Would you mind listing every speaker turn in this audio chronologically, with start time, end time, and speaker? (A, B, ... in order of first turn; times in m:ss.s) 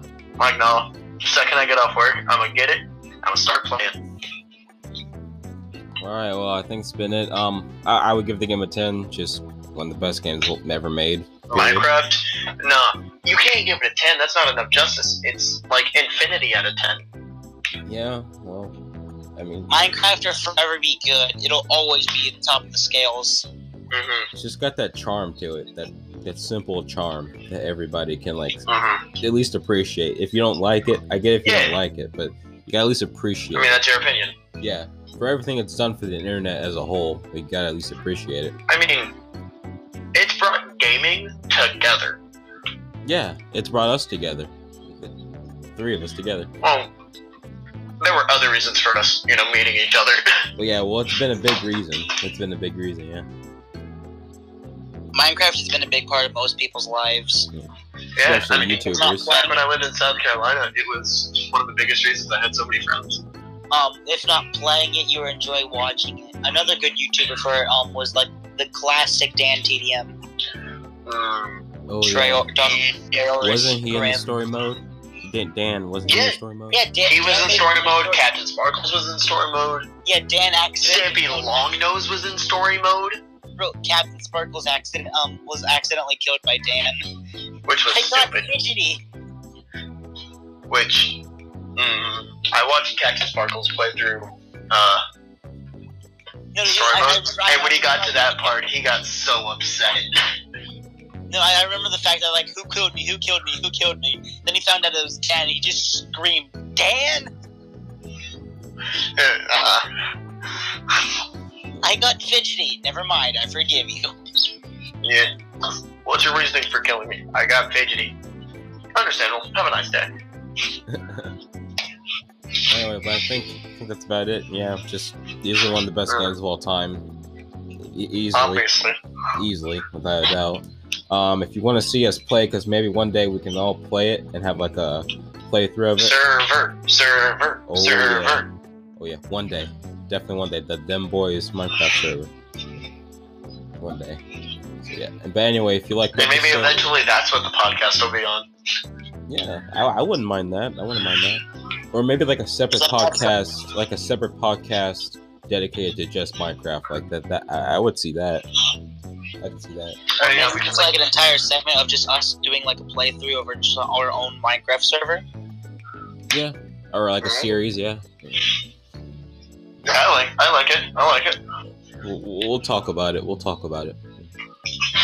0:00.4-0:04.0 A
0:06.0-0:11.9 B
0:11.5-0:17.0 A
0:17.8-0:18.8 B
0:19.4-0:19.8 B
0:19.7-0:23.5 C
0:23.9-0:24.3 A
0:24.3-0:28.7 B
0:28.7-0:29.1 A
0:29.2-0:33.8 B
0:31.4-0:31.8 A
0:33.5-0:34.4 A
0:34.6-0:38.6 B
0:38.7-0:39.1 A
0:40.1-0:42.2 A
0:43.0-0:45.1 B
0:45.7-0:46.5 B
0:46.6-0:46.9 A
0:48.0-0:50.4 A
0:50.6-0:53.3 B
0:55.1-0:57.5 C
0:57.5-0:59.3 B
0:58.1-1:03.2 A
0:58.5-0:59.6 C
1:03.7-1:10.2 C
1:11.0-1:11.6 A
1:11.9-1:12.5 B
1:12.0-1:14.2 C
1:13.4-1:16.8 B
1:16.0-1:16.4 A
1:16.7-1:18.2 C
1:17.0-1:19.9 A
1:20.0-1:21.6 C
1:20.8-1:23.2 A
1:23.6-1:27.1 C
1:27.6-1:28.5 A
1:27.9-1:29.0 C
1:30.7-1:31.2 A
1:31.8-1:35.0 A
1:36.5-1:38.5 C
1:36.6-1:40.2 A
1:41.3-1:47.3 C
1:49.1-1:49.9 A
1:51.8-1:54.1 C
1:55.0-1:55.3 A
1:56.0-1:58.2 A
1:58.9-2:00.1 A
2:00.9-2:01.3 B
2:02.7-2:07.0 B
2:07.8-2:08.7 B
2:08.3-2:09.0 A
2:09.4-2:16.2 B
2:16.0-2:18.5 A
2:17.7-2:18.4 B
2:19.0-2:22.3 B
2:23.8-2:24.2 B
2:24.8-2:26.9 B
2:26.2-2:28.5 A
2:29.3-2:38.4 B
2:32.7-2:33.3 C
2:39.4-2:40.0 B
2:40.2-2:41.0 A
2:40.2-2:45.2 C
2:46.3-2:48.5 B
2:47.2-2:47.5 A
2:49.8-2:51.4 A
2:52.0-2:54.3 B